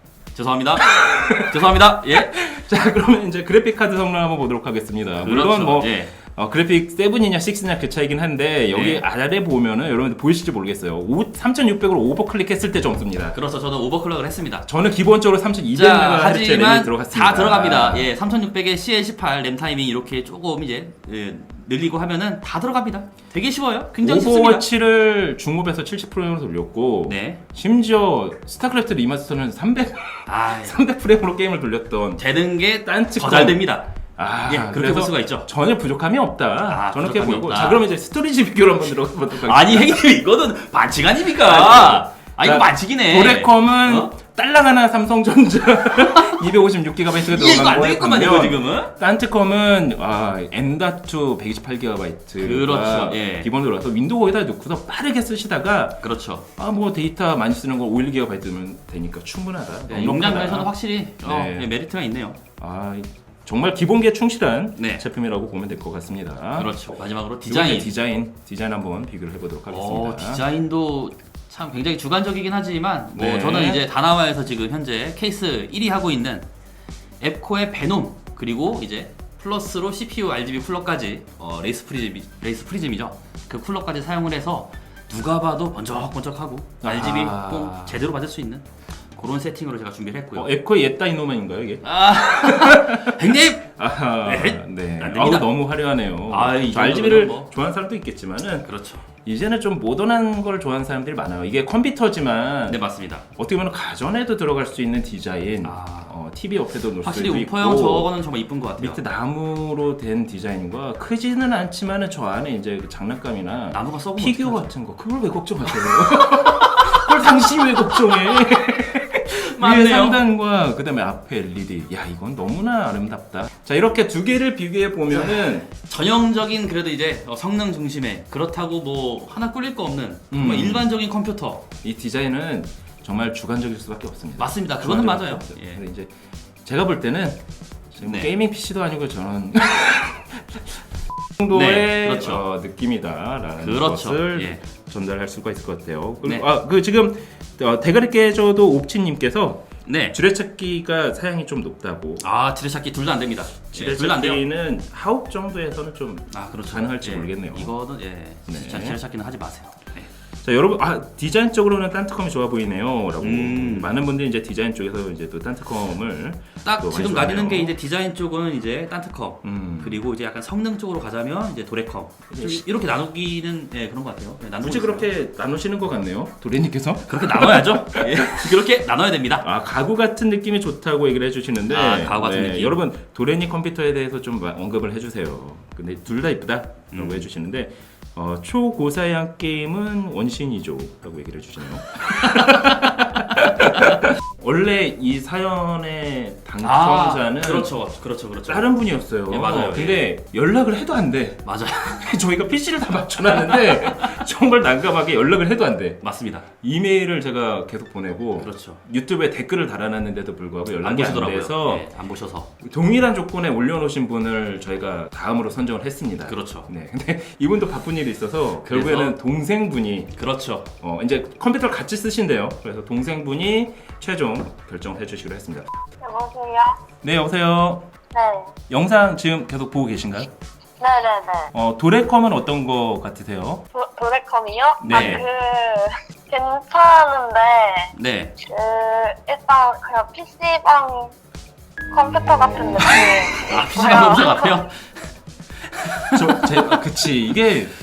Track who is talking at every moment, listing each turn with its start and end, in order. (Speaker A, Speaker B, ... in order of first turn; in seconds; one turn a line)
Speaker A: 0.3-2.4
Speaker B: 0.9-13.4
Speaker A: 5.2-6.2
Speaker A: 8.7-9.0
Speaker A: 13.2-14.7
Speaker B: 14.7-18.1
Speaker A: 15.7-24.7
Speaker B: 24.0-32.2
Speaker A: 27.1-27.4
Speaker A: 30.3-30.8
Speaker A: 32.2-33.9
Speaker B: 32.9-33.6
Speaker B: 34.2-40.1
Speaker A: 34.5-35.5
Speaker A: 36.7-37.8
Speaker A: 39.4-44.1
Speaker B: 41.4-56.0
Speaker A: 46.1-46.5
Speaker A: 47.1-48.9
Speaker A: 52.4-53.5
Speaker A: 56.0-56.5
Speaker B: 56.6-61.7
Speaker A: 59.9-62.4
Speaker B: 62.6-66.7
Speaker A: 64.8-65.0
Speaker A: 66.6-67.9
Speaker B: 67.5-70.4
Speaker A: 69.7-76.5
Speaker B: 73.1-73.8
Speaker A: 77.2-90.5
Speaker B: 86.8-88.0
Speaker B: 90.3-102.8
Speaker A: 91.8-95.5
Speaker A: 96.3-97.5
Speaker A: 98.7-99.0
Speaker A: 102.7-103.2
Speaker B: 103.3-108.1
Speaker A: 105.6-106.1
Speaker A: 107.0-109.0
Speaker B: 108.8-125.7
Speaker A: 113.7-114.7
Speaker A: 115.9-118.3
Speaker A: 119.3-120.2
Speaker A: 125.1-131.6
Speaker B: 130.3-130.9
Speaker B: 131.8-136.1
Speaker A: 134.4-135.8
Speaker B: 136.7-140.7
Speaker A: 138.0-138.3
Speaker B: 141.4-152.2
Speaker A: 141.5-142.4
Speaker A: 143.6-144.6
Speaker A: 149.8-150.2
Speaker A: 152.2-154.4
Speaker B: 153.7-157.7
Speaker A: 156.3-160.1
Speaker B: 158.5-159.0
Speaker B: 160.4-167.8
Speaker A: 163.2-164.0
Speaker A: 166.6-175.1
Speaker B: 169.4-170.0
Speaker B: 172.3-172.7
Speaker B: 174.6-178.6
Speaker A: 177.1-179.5
Speaker B: 179.4-197.7
Speaker A: 181.7-182.8
Speaker A: 186.9-187.3
Speaker A: 192.2-194.0
Speaker A: 196.6-200.0
Speaker B: 198.5-211.9
Speaker A: 201.4-202.1
Speaker A: 206.0-206.5
Speaker A: 208.4-208.8
Speaker A: 210.8-212.5
Speaker B: 212.6-220.2
Speaker A: 216.2-216.7
Speaker A: 218.6-219.2
Speaker A: 220.1-220.7
Speaker B: 220.8-225.7
Speaker C: 226.0-226.8
Speaker B: 227.0-227.9
Speaker C: 228.1-228.5
Speaker B: 228.7-230.3
Speaker C: 230.8-231.5
Speaker B: 231.5-233.6
Speaker C: 233.7-241.1
Speaker A: 234.8-235.2
Speaker B: 234.8-235.2
Speaker A: 237.9-238.3
Speaker C: 241.9-244.6
Speaker A: 242.9-245.0
Speaker A: 245.7-246.8
Speaker B: 246.1-247.7